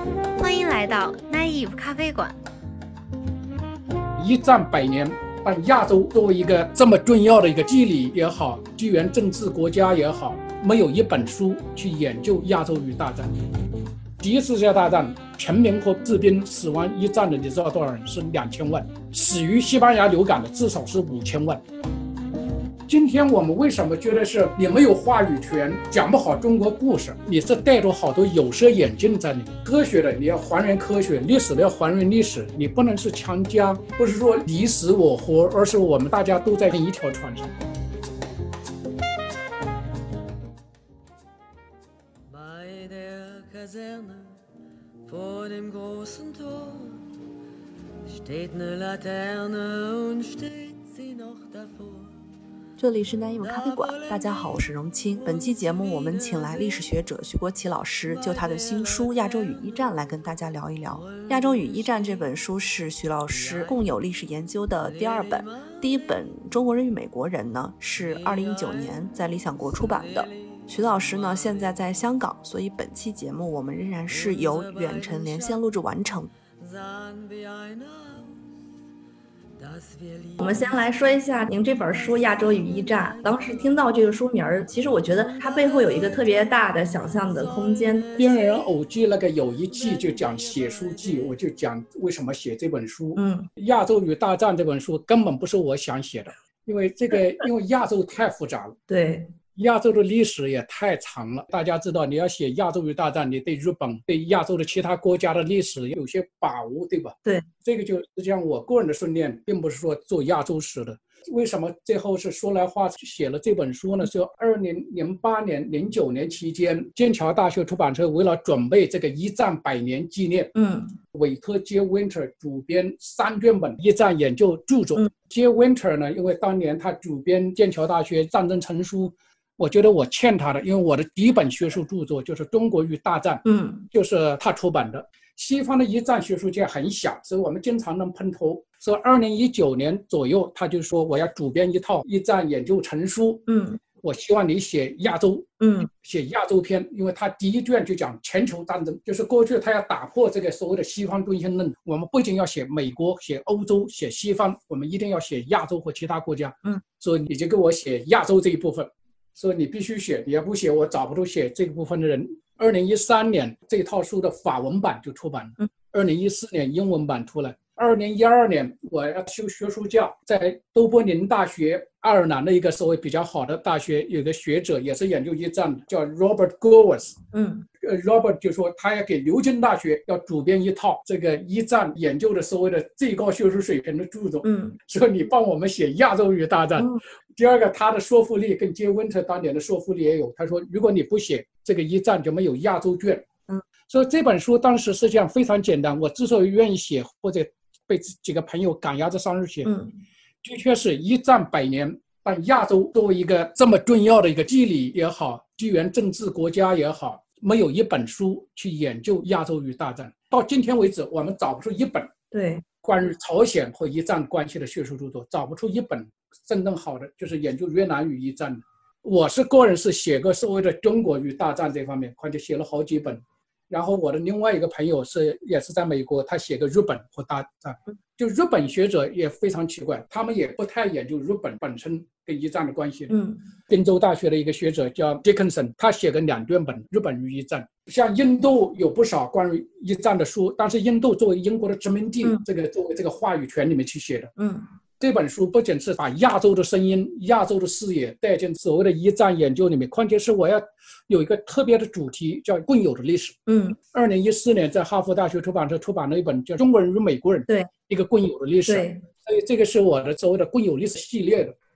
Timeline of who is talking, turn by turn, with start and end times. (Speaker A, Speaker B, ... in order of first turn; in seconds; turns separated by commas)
Speaker A: 0.4-2.4, Speaker B: 4.2-13.3, Speaker B: 14.2-21.6, Speaker B: 22.9-37.5, Speaker C: 42.3-44.4, Speaker C: 45.1-47.0, Speaker C: 48.1-52.1, Speaker D: 52.8-76.3, Speaker C: 76.6-78.3, Speaker C: 79.6-80.4, Speaker E: 80.4-88.1, Speaker B: 88.2-98.8, Speaker E: 93.2-93.5, Speaker E: 98.9-99.3, Speaker B: 99.6-120.5, Speaker E: 120.5-121.0, Speaker B: 121.1-143.5, Speaker E: 133.4-133.9, Speaker E: 143.5-143.8, Speaker B: 144.0-177.2, Speaker E: 145.6-145.9, Speaker E: 177.3-177.7, Speaker B: 177.8-193.3, Speaker E: 184.4-184.8, Speaker B: 193.9-199.7, Speaker E: 199.6-200.0, Speaker B: 200.4-212.1, Speaker E: 212.3-212.6, Speaker B: 212.8-233.1, Speaker E: 233.1-233.4, Speaker B: 233.7-244.3, Speaker E: 244.4-244.7, Speaker B: 245.0-261.6, Speaker E: 253.5-253.8, Speaker E: 258.7-259.0